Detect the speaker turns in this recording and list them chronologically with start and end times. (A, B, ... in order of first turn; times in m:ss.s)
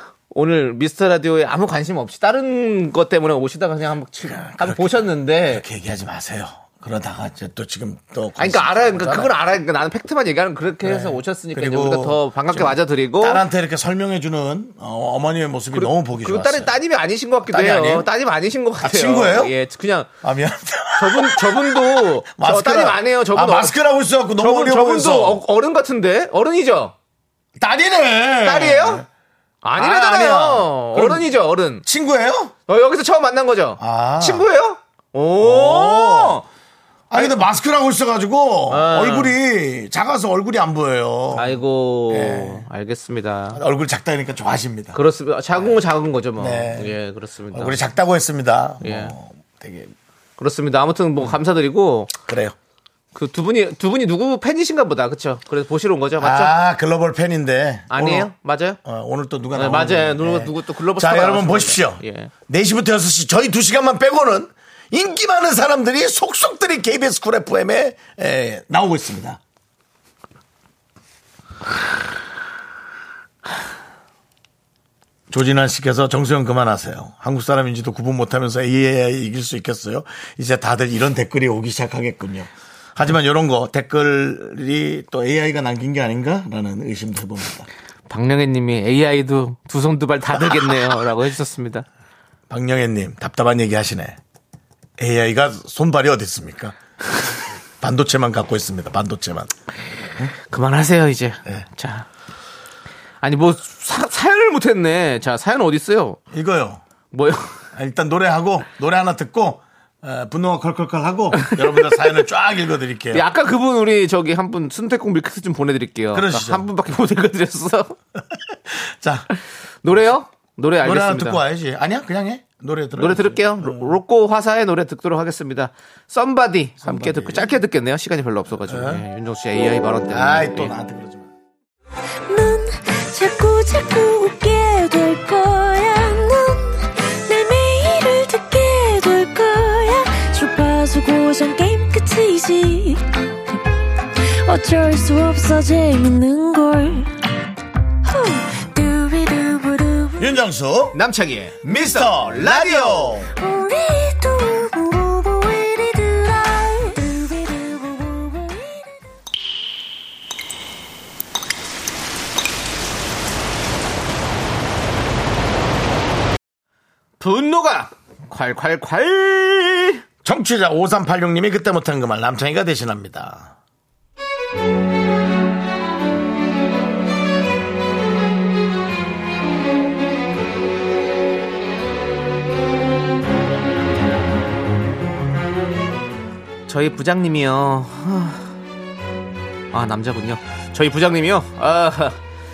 0:00.3-0:05.6 A
0:04.3-0:09.3 B
0:08.4-0:13.4 A
0:10.8-0:16.7 B
0:15.7-0:20.1 A
0:17.5-0:18.1 B
0:18.8-0:19.5 B
0:20.2-0:25.4 B
0:21.0-0:23.7 A
0:24.4-0:26.9 A
0:27.6-0:29.0 B
0:28.4-0:29.0 A
0:29.6-0:31.8 A
0:29.8-0:31.3 B
0:31.8-0:32.5 B
0:32.7-0:36.4 A
0:33.8-0:34.5 B
0:35.4-0:36.4 B
0:37.1-0:42.6 B
0:38.7-0:39.3 A
0:41.3-0:43.6 A
0:43.5-0:45.0 B
0:44.9-0:47.8 A
0:46.4-0:46.9 B
0:47.5-0:49.9 B
0:48.8-0:49.1 A
0:50.4-0:52.1 A
0:52.3-0:52.5 B
0:53.1-0:56.5 A
0:56.2-0:58.3 B
0:57.9-0:58.8 A
0:58.8-1:09.4 B
0:59.5-1:02.3 A
1:15.3-1:27.7 B
1:28.1-1:31.8 A
1:32.5-1:34.2 B
1:35.0-1:36.8 B
1:37.8-1:39.5 B
1:40.3-1:42.1 A
1:43.2-1:46.2 A
1:46.3-1:46.8 B
1:47.1-1:47.6 A
1:47.7-1:53.2 B
1:53.1-1:58.0 A
1:56.1-1:56.6 B
1:58.2-1:59.3 B
1:59.8-2:01.4 A
2:00.8-2:03.9 B
2:03.0-2:10.7 A
2:06.8-2:07.5 B
2:08.6-2:09.0 B
2:10.1-2:11.3 B
2:12.3-2:23.6 C
2:24.3-2:27.1 C
2:28.0-2:30.3 C
2:30.2-2:31.0 B
2:30.9-2:33.2 A
2:31.6-2:33.3 B
2:33.4-2:38.9 C
2:47.2-2:50.0 A
2:50.2-2:53.5 B
3:06.7-3:08.4 A
3:09.7-3:12.2 A